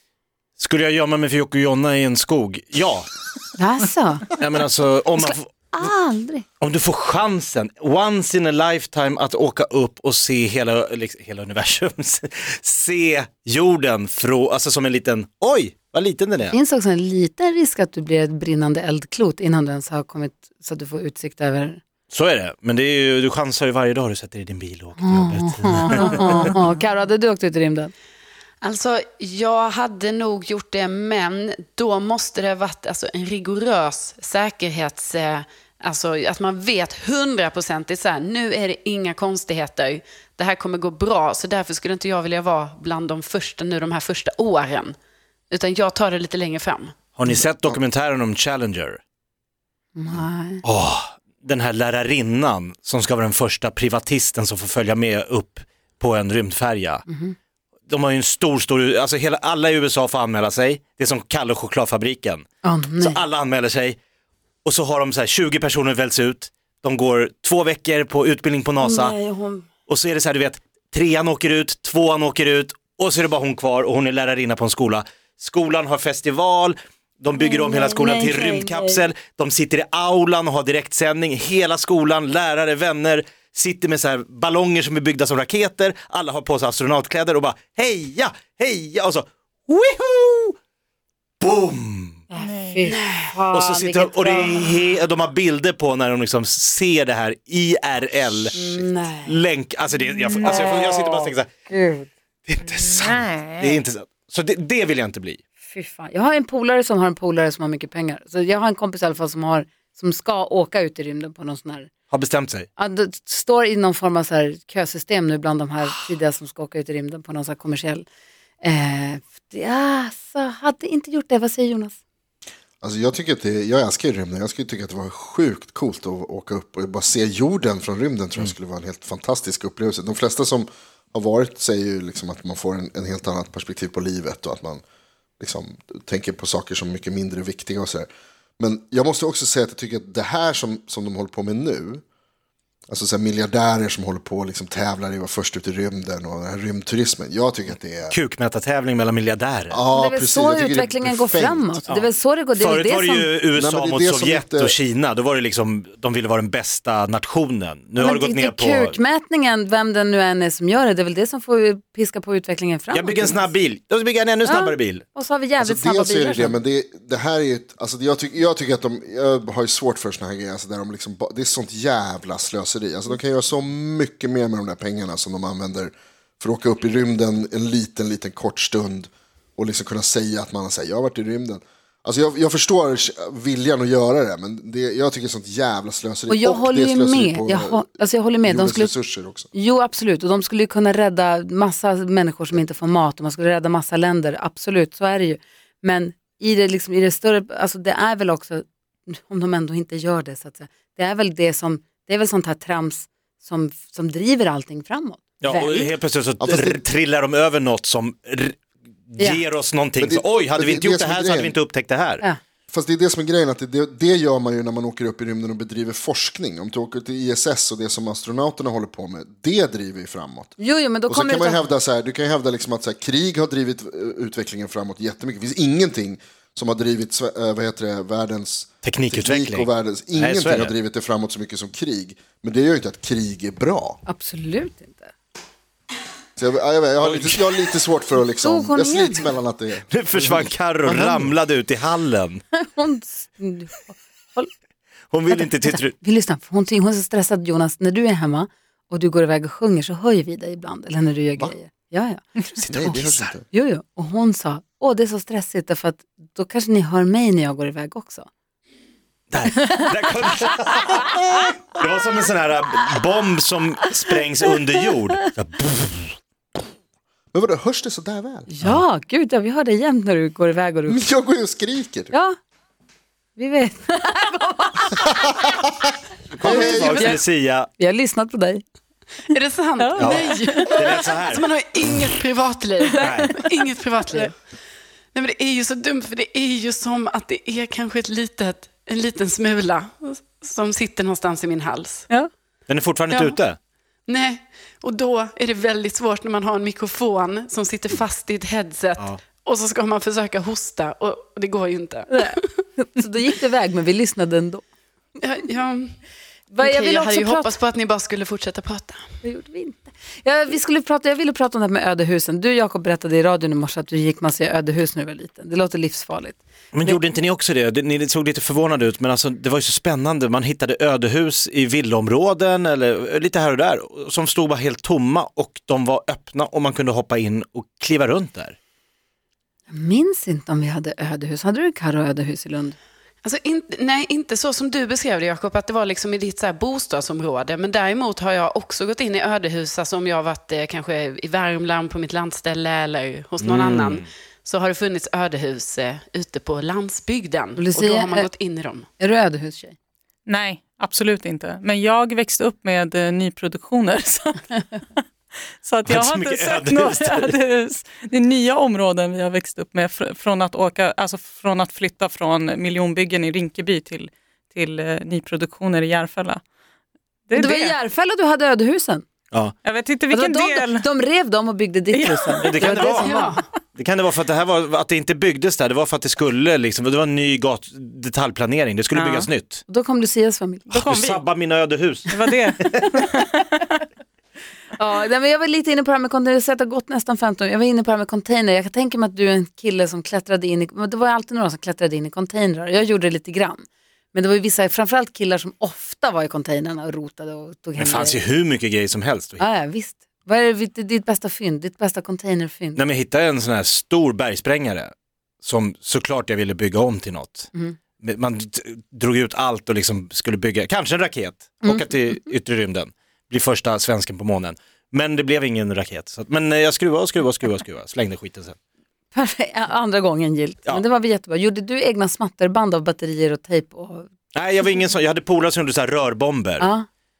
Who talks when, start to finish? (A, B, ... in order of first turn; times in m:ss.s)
0:00.6-0:03.5 A
0:03.6-0:04.3 B
0:04.3-0:05.9 A
0:05.2-0:06.4 B
0:06.6-0:16.6 A
0:16.5-0:21.8 B
0:22.1-0:26.5 A
0:25.0-0:27.9 B
0:28.6-0:45.0 C
0:45.5-0:47.1 C
0:47.1-0:49.0 A
0:47.3-0:47.8 D
0:49.9-0:50.6 B
0:50.6-0:57.0 A
0:57.1-0:57.4 B
0:57.9-1:02.5 A
1:02.6-1:03.2 B
1:03.0-1:04.0 A
1:04.6-1:09.2 A
1:08.8-1:09.7 B
1:09.9-1:30.6 A
1:17.4-1:19.0 B
1:31.4-1:32.2 A
1:32.3-1:34.7 B
1:32.4-1:32.9 E
1:32.9-1:33.3 C
1:33.5-1:41.5 A
1:38.5-1:39.4 B
1:40.4-1:42.1 B
1:42.5-1:45.4 A
1:42.9-1:43.7 E
1:45.6-1:51.9 B
1:52.1-1:52.7 A
1:52.8-1:58.0 B
1:58.6-2:02.0 B
2:02.8-2:14.8 D
2:15.4-2:18.1 D
2:18.6-2:22.0 D
2:22.9-2:28.2 D
2:28.1-2:29.8 A
2:29.7-2:31.8 D
2:29.9-2:33.3 B
2:31.9-2:39.0 A
2:33.6-2:34.7 D
2:38.0-2:43.5 B
2:42.9-2:45.0 A
2:44.4-2:46.6 B
2:45.6-3:07.9 D
3:06.3-3:08.9 B
3:08.4-3:09.5 D
3:09.5-3:25.9 B
3:25.4-3:32.2 A
3:26.4-3:26.8 D
3:29.2-3:29.4 B
3:30.0-3:31.5 D
3:32.7-3:54.0 D
3:40.6-3:41.7 B
3:48.8-3:50.7 A
3:54.1-3:55.1 B
3:56.4-4:01.3 D
3:57.0-3:57.4 A
3:58.4-3:59.3 B
3:59.9-4:02.4 A
4:02.5-4:04.5 B
4:05.1-4:05.9 A
4:05.3-4:13.0 B
4:12.6-4:13.3 A
4:12.7-4:13.4 D
4:13.5-4:18.3 B
4:19.3-4:26.2 A
4:27.3-4:28.5 D
4:28.5-4:31.0 B
4:30.9-4:32.1 D
4:33.4-4:35.2 B
4:36.3-4:37.7 A
4:36.4-4:37.0 D
4:36.5-4:37.2 B
4:36.5-4:37.2 C
4:37.8-4:38.6 B
4:39.3-4:44.3 C
4:39.8-4:40.7 B
4:40.7-4:41.4 A
4:43.0-4:43.3 A
4:45.1-4:52.1 C
4:52.7-4:53.6 A
4:53.1-4:53.4 C
4:54.1-5:02.5 C
5:02.1-5:04.6 B
5:05.2-5:06.0 C
5:06.5-5:07.5 B
5:06.6-5:09.1 C
5:09.2-5:17.0 B
5:16.7-5:28.6 A
5:29.7-5:32.8 B
5:33.2-5:48.9 C
5:43.4-5:44.0 A
5:47.6-5:48.3 B
5:49.0-5:49.8 B
5:50.3-5:55.0 E
5:55.6-6:06.4 E
5:55.9-5:57.3 A
6:07.3-6:07.8 E
6:07.3-6:09.0 B
6:09.6-6:10.8 E
6:10.1-6:13.4 B
6:11.9-6:12.8 E
6:12.4-6:13.1 A
6:13.0-6:13.4 C
6:13.8-6:19.6 A
6:18.9-6:21.1 B
6:20.7-6:21.2 E
6:20.7-6:23.0 A
6:22.1-6:23.2 E
6:24.8-6:38.2 B
6:37.8-6:39.4 A
6:39.4-6:42.8 B
6:42.8-6:58.6 A
6:51.6-6:51.9 B
6:59.1-7:04.1 B
7:04.3-7:06.7 A
7:06.6-7:06.8 B